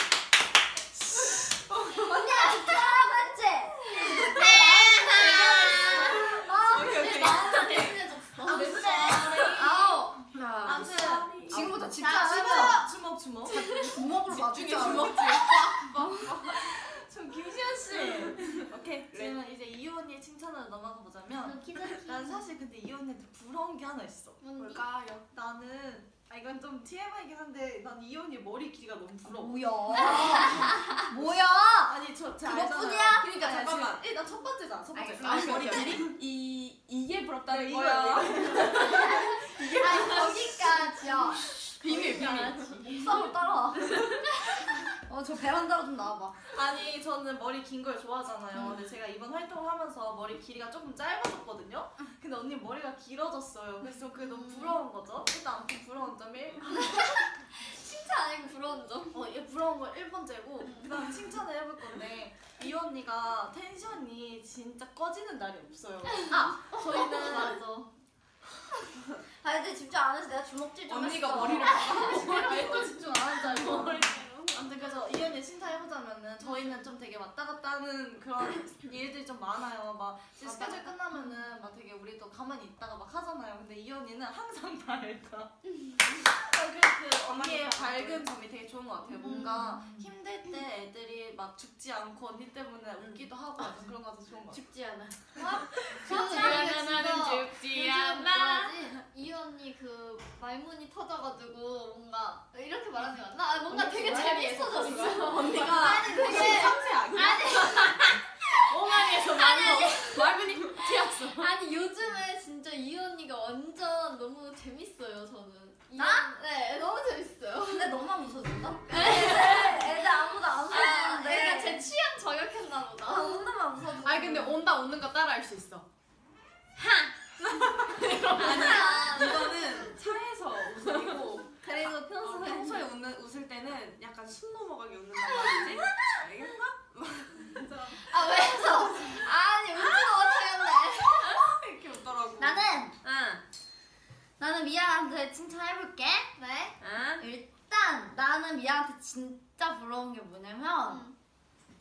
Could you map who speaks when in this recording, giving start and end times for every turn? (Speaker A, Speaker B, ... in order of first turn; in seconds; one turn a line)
Speaker A: 0.9-7.0
Speaker B: 2.0-2.9
Speaker B: 4.0-9.6
Speaker C: 4.5-7.9
Speaker D: 6.1-7.9
Speaker C: 8.4-10.0
Speaker D: 8.5-9.3
Speaker A: 9.4-10.2
Speaker E: 10.3-10.9
Speaker C: 10.6-13.8
Speaker D: 10.7-11.8
Speaker A: 11.5-12.9
Speaker B: 12.1-12.8
Speaker A: 13.4-15.4
Speaker B: 13.4-14.0
Speaker D: 14.2-16.9
Speaker E: 14.8-15.1
Speaker C: 16.1-30.2
Speaker D: 17.9-19.4
Speaker B: 21.4-22.5
Speaker B: 24.4-24.8
Speaker D: 24.7-25.3
Speaker A: 29.2-33.2
Speaker B: 30.1-30.9
Speaker C: 31.7-36.0
Speaker D: 33.1-34.0
Speaker A: 34.9-36.0
Speaker E: 35.2-36.1
Speaker D: 35.2-40.4
Speaker C: 37.5-40.1
Speaker B: 38.8-41.2
Speaker A: 39.5-41.5
Speaker D: 41.4-44.2
Speaker C: 41.9-42.5
Speaker A: 42.9-44.2
Speaker A: 44.7-46.4
Speaker C: 46.5-57.3
Speaker A: 48.5-48.8
Speaker B: 54.2-54.8
Speaker B: 56.8-59.2
Speaker C: 59.1-67.6
Speaker B: 60.6-61.0
Speaker E: 66.3-67.4
Speaker B: 66.3-67.9
Speaker A: 69.4-74.0
Speaker D: 70.9-72.9
Speaker C: 72.0-85.5
Speaker E: 72.0-72.3
Speaker B: 73.8-74.5
Speaker B: 85.7-86.2
Speaker C: 86.1-94.6
Speaker D: 87.3-88.3
Speaker B: 89.2-89.8
Speaker A: 89.2-90.0
Speaker E: 93.0-93.7
Speaker E: 94.5-98.9
Speaker B: 95.3-117.9
Speaker C: 96.1-96.6
Speaker E: 103.7-106.0
Speaker D: 105.2-107.5
Speaker C: 105.6-106.8
Speaker E: 107.4-111.5
Speaker A: 115.9-116.3
Speaker A: 117.7-121.9
Speaker B: 118.9-119.9
Speaker B: 120.6-123.6
Speaker A: 123.0-124.5
Speaker E: 124.0-125.9
Speaker D: 127.4-131.6
Speaker E: 127.8-129.3
Speaker B: 128.4-130.1
Speaker B: 131.6-132.8
Speaker D: 132.2-138.0
Speaker B: 135.4-135.8
Speaker C: 137.5-138.2
Speaker B: 137.9-141.4
Speaker A: 138.3-141.0
Speaker D: 141.2-142.8
Speaker A: 142.4-142.9
Speaker E: 143.0-143.4
Speaker A: 144.4-146.3
Speaker B: 146.4-146.8
Speaker E: 146.8-147.2
Speaker A: 147.2-151.0
Speaker B: 150.8-151.1